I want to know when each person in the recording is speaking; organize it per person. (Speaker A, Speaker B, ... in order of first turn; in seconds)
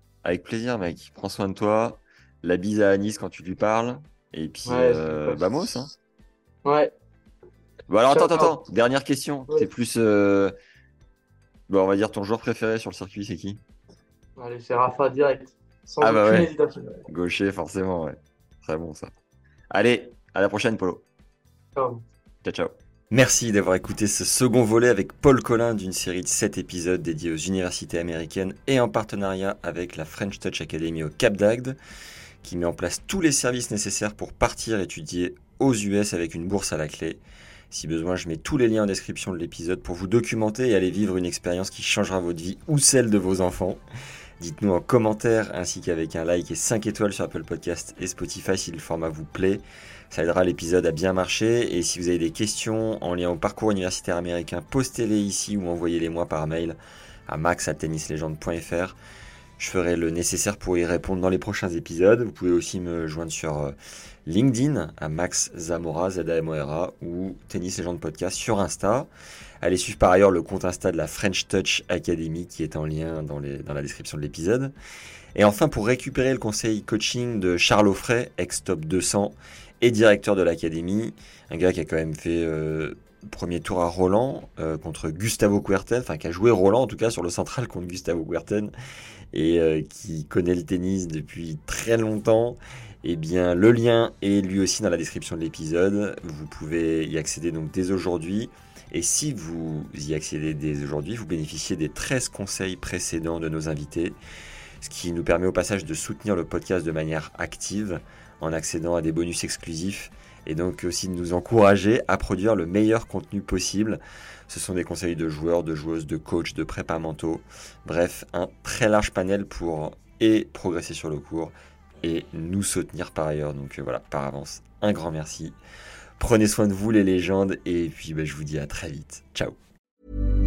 Speaker A: 0.2-5.9, 7.9-10.5, 11.7-13.6, 16.0-16.5, 17.1-19.1, 19.7-21.0, 22.4-31.8, 32.4-43.8, 44.4-59.0, 59.6-63.7, 64.2-69.1, 69.6-74.7, 75.3-88.7, 89.3-104.2, 104.8-125.5, 126.2-129.6
Speaker B: 4.6-5.4, 6.6-6.9, 8.1-8.6, 14.3-17.0, 21.8-22.0